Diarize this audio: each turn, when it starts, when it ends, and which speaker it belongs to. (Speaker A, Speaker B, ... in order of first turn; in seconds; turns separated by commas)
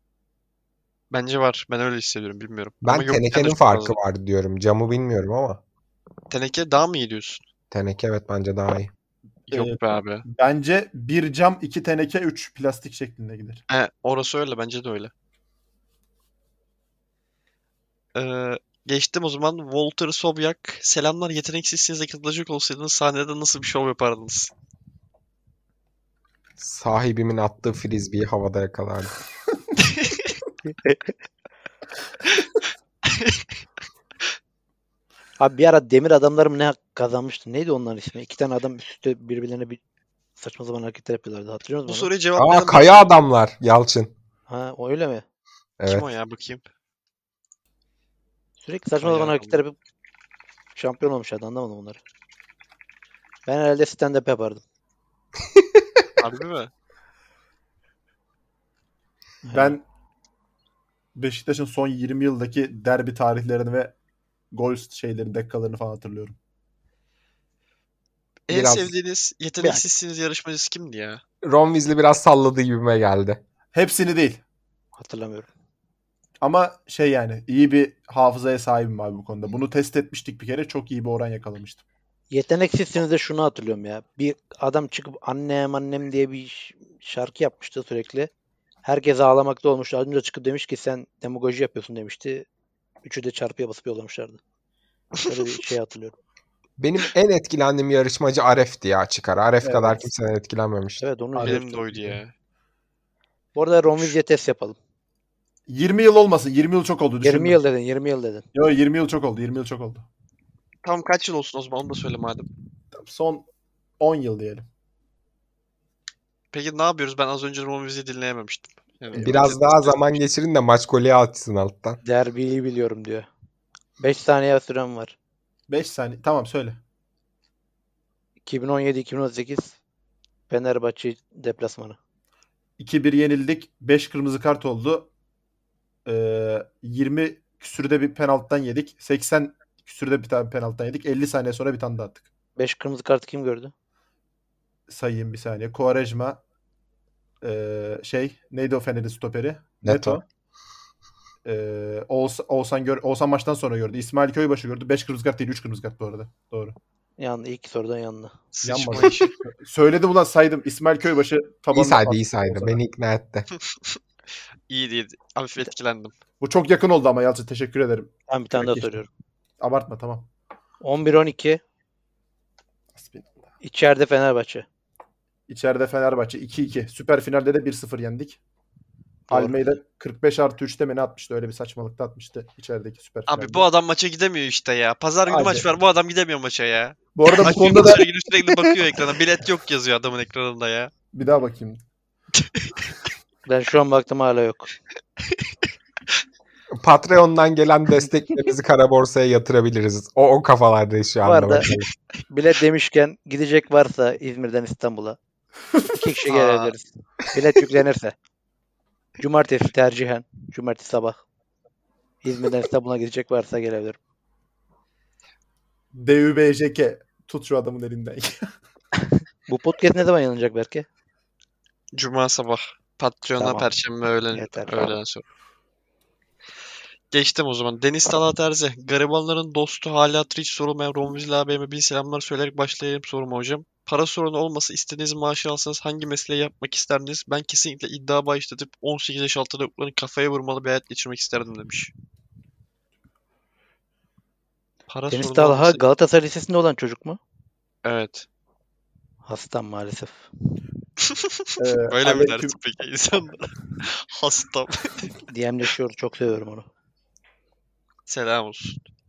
Speaker A: 1.1-4.0, Speaker B: 2.8-5.6, Speaker A: 6.3-7.4, Speaker B: 7.7-8.9, Speaker A: 9.5-10.2, Speaker C: 9.5-13.6, Speaker A: 13.7-15.1, Speaker A: 18.1-24.5, Speaker B: 26.6-29.1, Speaker A: 29.9-30.3, Speaker D: 30.7-31.0, Speaker A: 33.1-33.5, Speaker D: 35.4-39.8, Speaker D: 40.4-42.1, Speaker A: 41.9-43.1, Speaker B: 42.4-44.1, Speaker D: 44.5-45.2, Speaker B: 45.8-46.1, Speaker A: 45.9-46.7, Speaker D: 48.6-49.8, Speaker A: 49.0-49.6, Speaker D: 50.8-52.0, Speaker D: 53.5-54.6, Speaker B: 55.5-55.8, Speaker A: 56.2-56.7, Speaker C: 59.5-59.8, Speaker D: 59.5-59.8, Speaker C: 61.1-64.0, Speaker C: 64.5-66.4, Speaker A: 68.5-71.2, Speaker B: 68.5-68.9, Speaker B: 71.4-73.4, Speaker C: 73.7-74.4, Speaker D: 75.0-75.5, Speaker C: 76.4-81.8, Speaker D: 82.3-88.3, Speaker D: 88.8-92.5, Speaker D: 93.0-94.4, Speaker D: 95.2-96.2, Speaker B: 96.8-101.0, Speaker C: 99.6-100.0, Speaker D: 101.0-101.8, Speaker C: 101.3-102.2, Speaker A: 101.4-102.3, Speaker D: 103.5-104.8, Speaker C: 105.7-107.6, Speaker D: 107.2-108.5, Speaker C: 108.5-110.1, Speaker A: 110.8-112.5, Speaker C: 112.9-113.5, Speaker C: 114.0-114.7, Speaker A: 116.5-120.2, Speaker C: 119.1-119.5, Speaker B: 119.2-122.0, Speaker D: 122.0-123.3, Speaker D: 124.0-125.2, Speaker C: 125.7-126.8, Speaker D: 128.4-129.8, Speaker D: 130.5-132.0, Speaker C: 132.8-135.1, Speaker C: 136.1-142.3, Speaker D: 142.6-143.7, Speaker C: 144.9-146.4, Speaker C: 147.4-150.2, Speaker B: 149.8-150.2, Speaker C: 151.4-156.8, Speaker D: 157.2-158.3, Speaker A: 158.5-159.3, Speaker C: 158.6-162.8, Speaker B: 161.7-163.5, Speaker A: 164.7-166.2, Speaker C: 166.4-168.9, Speaker D: 168.3-169.1, Speaker C: 169.6-170.3, Speaker D: 170.8-171.6, Speaker C: 172.9-173.3, Speaker D: 173.6-174.7, Speaker C: 175.5-178.4, Speaker D: 179.3-179.6, Speaker C: 179.3-183.7, Speaker A: 183.3-190.9, Speaker C: 185.3-185.7, Speaker C: 187.2-188.1, Speaker C: 191.1-191.8, Speaker A: 192.4-192.8, Speaker D: 193.5-194.7, Speaker B: 196.7-201.9, Speaker D: 201.2-201.7, Speaker D: 202.3-205.2, Speaker D: 205.8-208.2, Speaker A: 206.3-206.7, Speaker D: 209.2-211.2, Speaker D: 212.2-214.0, Speaker C: 215.9-218.5, Speaker D: 219.5-220.9, Speaker A: 221.9-225.2, Speaker D: 223.4-223.7, Speaker D: 224.3-225.0, Speaker A: 227.1-241.9, Speaker A: 244.9-245.8, Speaker D: 245.1-247.2, Speaker A: 247.8-248.3, Speaker D: 249.2-250.3, Speaker A: 251.0-255.1, Speaker C: 251.6-252.6, Speaker D: 255.3-256.7, Speaker A: 258.1-258.8